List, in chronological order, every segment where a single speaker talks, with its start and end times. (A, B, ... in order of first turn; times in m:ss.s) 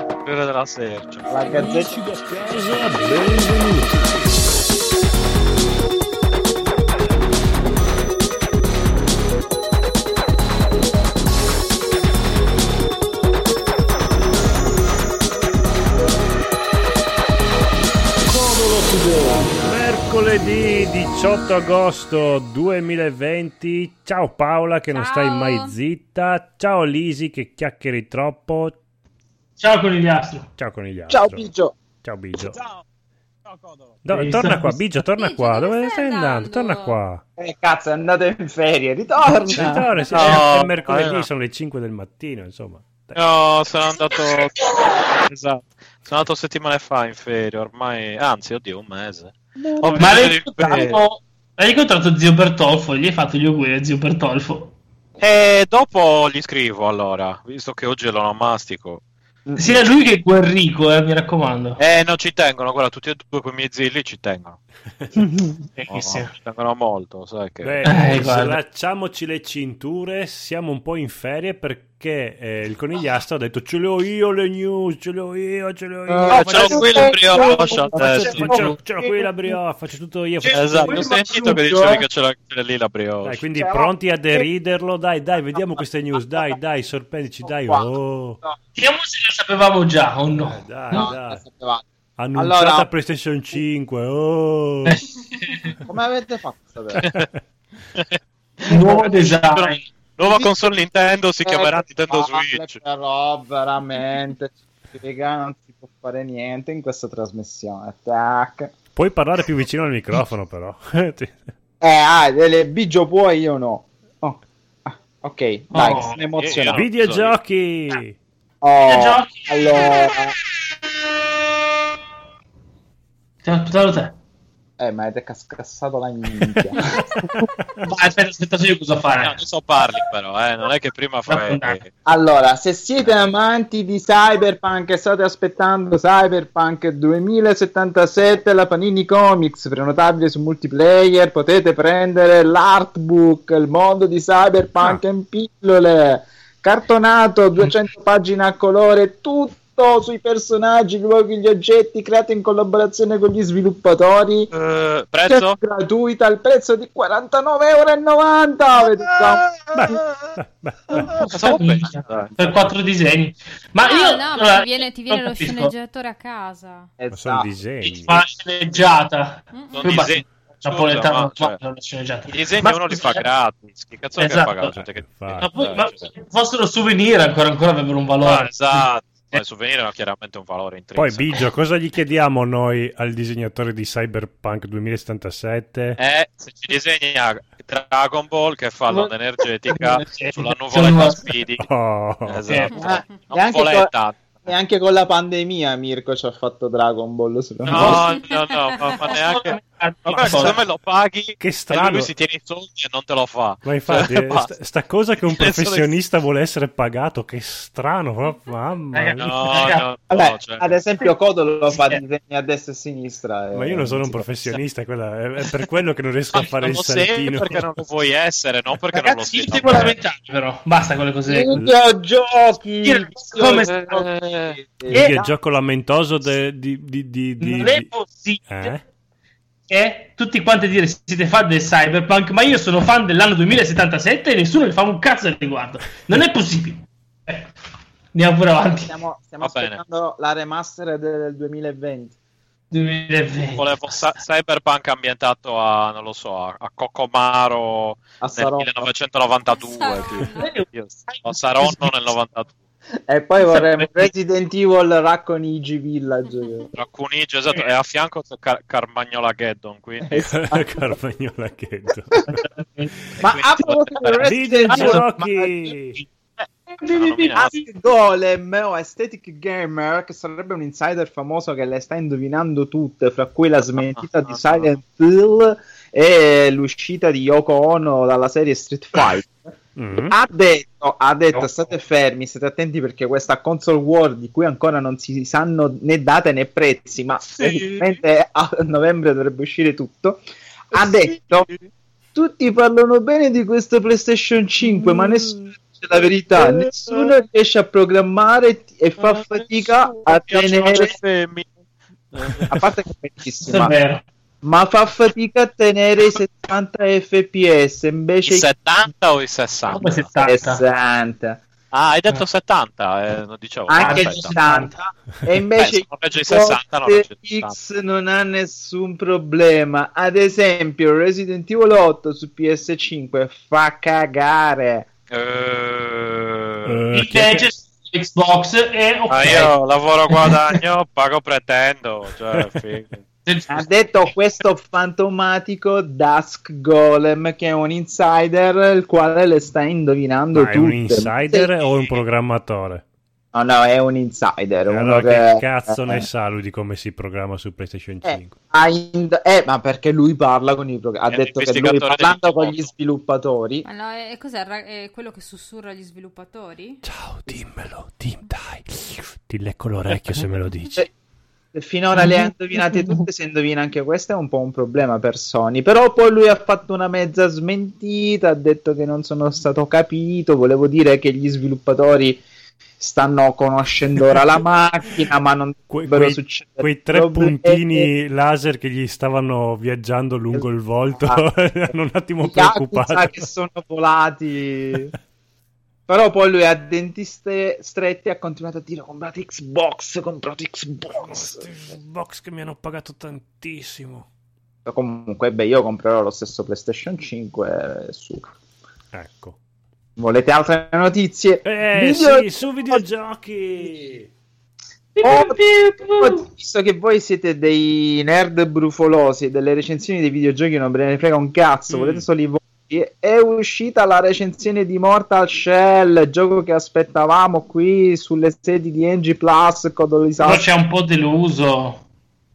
0:00.2-0:01.3 A
0:01.3-0:02.0 B
0:01.5-0:04.3 C
0:18.4-0:28.8 C
0:24.9-0:25.8 D
0:29.6-0:30.5 E
0:30.6-0:31.5 C
0:31.1-0:31.8 B
0:32.0-0:32.6 C
0:32.5-0:32.8 A
0:33.5-0:33.9 A
0:34.0-0:37.2 C
0:34.1-0:34.8 E
0:35.2-0:37.0 D
0:37.4-0:39.9 B
0:39.5-0:43.2 C
0:40.1-0:41.3 A
0:40.2-0:40.4 E
0:43.2-0:51.0 A
0:49.6-0:50.3 B
0:50.0-0:54.7 E
0:55.2-0:59.0 A
0:59.5-0:59.8 B
0:59.6-1:01.8 E
1:01.8-1:04.6 A
1:05.2-1:05.7 B
1:05.8-1:06.3 E
1:05.9-1:08.0 A
1:07.6-1:21.0 C
1:07.8-1:08.6 E
1:16.1-1:19.6 B
1:16.3-1:18.4 A
1:18.1-1:18.8 E
1:20.4-1:23.4 A
1:20.7-1:22.0 B
1:23.2-1:28.4 C
1:23.5-1:24.5 B
1:27.4-1:28.6 B
1:28.8-1:31.1 E
1:30.5-1:31.4 C
1:30.9-1:31.8 B
1:32.2-1:35.0 C
1:32.4-1:32.9 B
1:34.9-1:35.8 E
1:35.8-1:37.1 B
1:37.0-1:37.3 A
1:37.0-1:37.4 C
1:38.7-1:39.8 E
1:38.7-1:39.0 B
1:38.9-1:42.8 A
1:40.2-1:40.5 B
1:41.4-1:48.7 B
1:49.0-1:51.4 C
1:51.8-1:56.8 B
1:55.7-1:56.2 E
1:56.3-1:57.4 A
1:56.7-1:58.2 C
1:58.6-2:00.4 B
1:58.8-2:00.0 E
2:03.4-2:04.2 E
2:04.8-2:07.3 B
2:06.5-2:07.9 C
2:07.8-2:09.4 E
2:09.2-2:11.9 A
2:11.3-2:11.8 E
2:12.1-2:34.5 B
2:34.5-2:35.6 A
2:35.3-2:39.5 B
2:39.7-2:41.3 C
2:41.2-2:42.7 A
2:41.4-2:45.7 E
2:43.8-2:46.9 D
2:47.0-2:47.5 B
2:47.1-2:48.2 C
2:47.8-2:53.2 E
2:49.5-2:49.9 D
2:49.7-2:51.6 A
2:52.3-2:56.1 A
2:54.2-2:54.8 E
2:55.1-2:55.5 C
2:55.4-2:59.4 E
2:58.2-3:01.5 A
3:01.0-3:06.0 C
3:06.0-3:11.7 A
3:09.7-3:11.4 E
3:11.6-3:12.4 C
3:12.3-3:14.5 A
3:12.5-3:12.8 E
3:12.7-3:13.1 D
3:12.8-3:18.0 B
3:17.7-3:24.5 A
3:17.7-3:18.0 E
3:18.1-3:19.2 D
3:19.2-3:20.6 E
3:21.4-3:22.1 C
3:23.6-3:29.3 C
3:25.2-3:26.0 A
3:28.9-3:29.9 E
3:29.2-3:30.8 A
3:30.1-3:34.3 B
3:31.7-3:32.0 E
3:33.5-3:37.6 C
3:36.3-3:40.0 A
3:39.0-3:41.5 E
3:39.0-3:39.2 B
3:41.3-3:45.3 B
3:42.8-3:44.1 E
3:43.6-3:44.6 A
3:44.9-3:47.9 C
3:47.4-3:48.7 E
3:48.5-3:48.8 C
3:49.7-3:57.5 E
3:58.1-3:59.0 E
3:58.8-4:02.2 B
3:59.4-3:59.8 A
4:02.7-4:04.0 E
4:03.6-4:12.5 A
4:08.2-4:08.9 B
4:09.5-4:10.5 D
4:10.4-4:11.9 E
4:13.1-4:16.7 B
4:13.4-4:14.1 E
4:16.7-4:20.4 A
4:20.1-4:20.9 B
4:20.3-4:22.2 C
4:22.4-4:22.9 E
4:23.2-4:25.1 A
4:23.2-4:25.8 B
4:24.2-4:26.0 C
4:26.4-4:27.6 A
4:26.8-4:27.6 E
4:27.4-4:51.5 B
4:33.8-4:34.7 A
4:39.8-4:40.2 C
4:41.3-4:41.7 A
4:47.2-4:48.0 A
4:50.7-4:51.7 A
4:52.1-5:01.0 B
4:56.4-4:57.1 A
4:59.0-5:01.5 A
5:02.1-5:02.7 A
5:02.5-5:03.8 B
5:03.4-5:04.0 E
5:04.4-5:08.5 B
5:08.3-5:10.2 A
5:09.7-5:10.6 E
5:10.2-5:11.4 B
5:11.7-5:14.4 A
5:13.7-5:24.9 B
5:13.8-5:14.8 E
5:15.6-5:17.6 A
5:25.1-5:26.8 A
5:26.6-5:27.5 C
5:26.9-5:29.6 E
5:29.1-5:33.1 A
5:30.1-5:30.5 E
5:33.3-5:33.7 E
5:33.5-5:41.5 B
5:40.3-5:42.8 C
5:41.6-5:42.0 A
5:43.3-5:46.1 B
5:44.7-5:48.4 C
5:48.0-5:53.7 B
5:51.1-5:52.7 A
5:53.6-5:56.8 D
5:56.8-6:00.8 C
6:01.5-6:12.2 B
6:02.0-6:03.0 E
6:12.8-6:17.9 B
6:15.7-6:23.3 C
6:20.3-6:21.2 B
6:22.2-6:24.9 B
6:25.9-6:31.5 B
6:31.1-6:34.1 C
6:34.7-6:38.3 B
6:38.9-6:39.4 C
6:40.0-6:42.8 B
6:41.4-6:44.1 C
6:45.0-6:46.3 E
6:45.0-6:45.4 B
6:46.0-7:00.5 B
6:51.7-6:52.1 C
7:00.2-7:01.8 E